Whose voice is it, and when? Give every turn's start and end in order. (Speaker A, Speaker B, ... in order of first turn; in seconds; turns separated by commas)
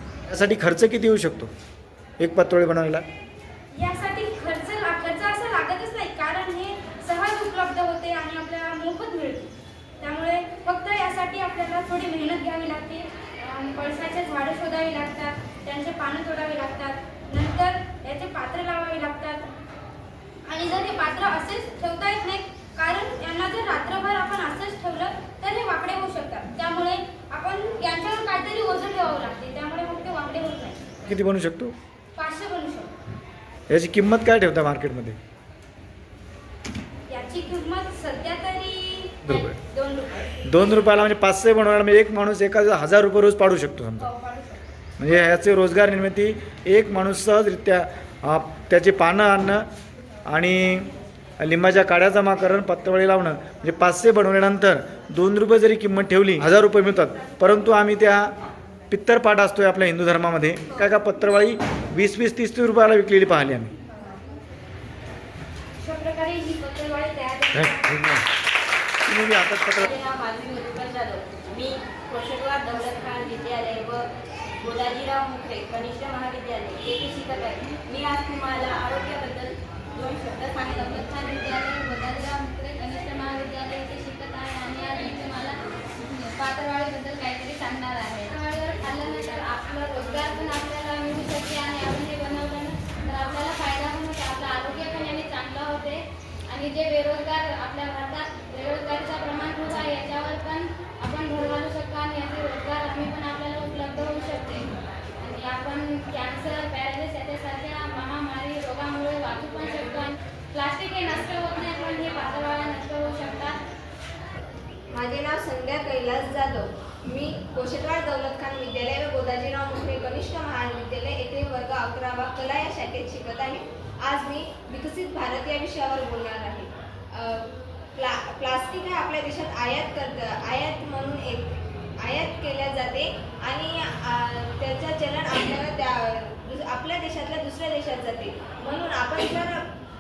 Speaker A: 0.3-1.5, Speaker A: 2.2-3.1, Speaker B: 3.8-19.5, Speaker B: 20.5-30.8, Speaker A: 31.1-31.8, Speaker B: 32.2-32.9, Speaker A: 33.7-35.2, Speaker B: 37.1-40.4, Speaker A: 39.2-39.5, Speaker A: 40.5-44.1, Speaker B: 44.0-44.6, Speaker A: 45.0-49.6, Speaker A: 50.3-58.3, Speaker A: 58.9-63.7, Speaker B: 65.8-68.1, Speaker A: 67.6-68.2, Speaker A: 69.0-69.9, Speaker C: 69.8-74.1, Speaker C: 74.6-80.7, Speaker D: 80.6-104.7, Speaker D: 105.2-113.6, Speaker E: 114.9-139.7